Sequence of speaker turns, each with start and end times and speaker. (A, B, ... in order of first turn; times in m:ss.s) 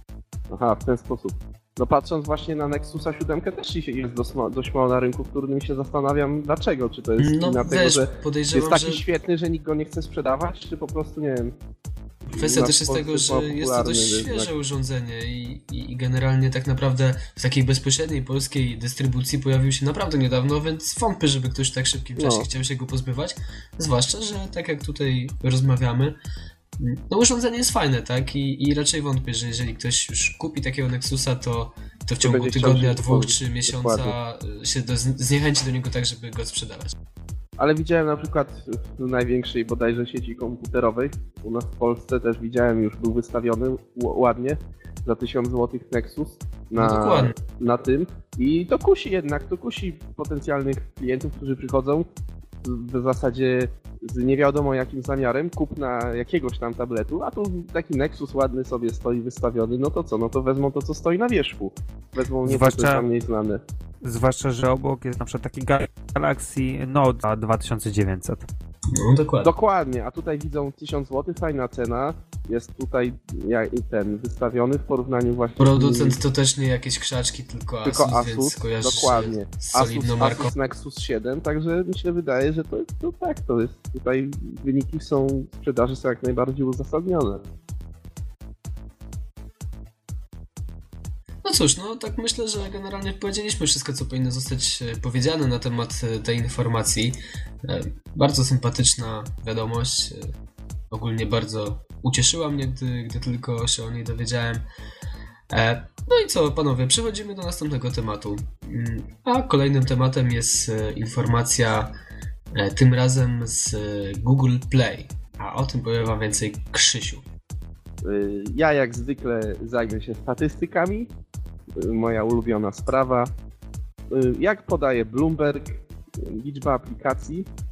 0:00.5-0:11.5 A
0:07.2-0:09.0 B
0:12.3-0:14.5 A
0:12.4-0:26.2 B
0:22.2-0:22.5 A
0:26.8-0:37.0 B
0:32.2-0:34.1 A
0:37.6-0:52.1 A
0:46.8-0:47.4 B
0:52.6-1:03.6 A
1:02.4-1:03.1 C
1:04.0-1:08.5 C
1:08.9-1:09.5 B
1:09.4-1:16.2 A
1:15.6-1:20.5 B
1:17.8-1:27.4 A
1:31.4-1:40.3 B
1:40.9-1:44.6 B
1:45.5-1:51.9 B
1:52.5-1:57.2 B
1:58.0-2:01.1 A
2:01.8-2:03.3 A
2:04.1-2:07.5 A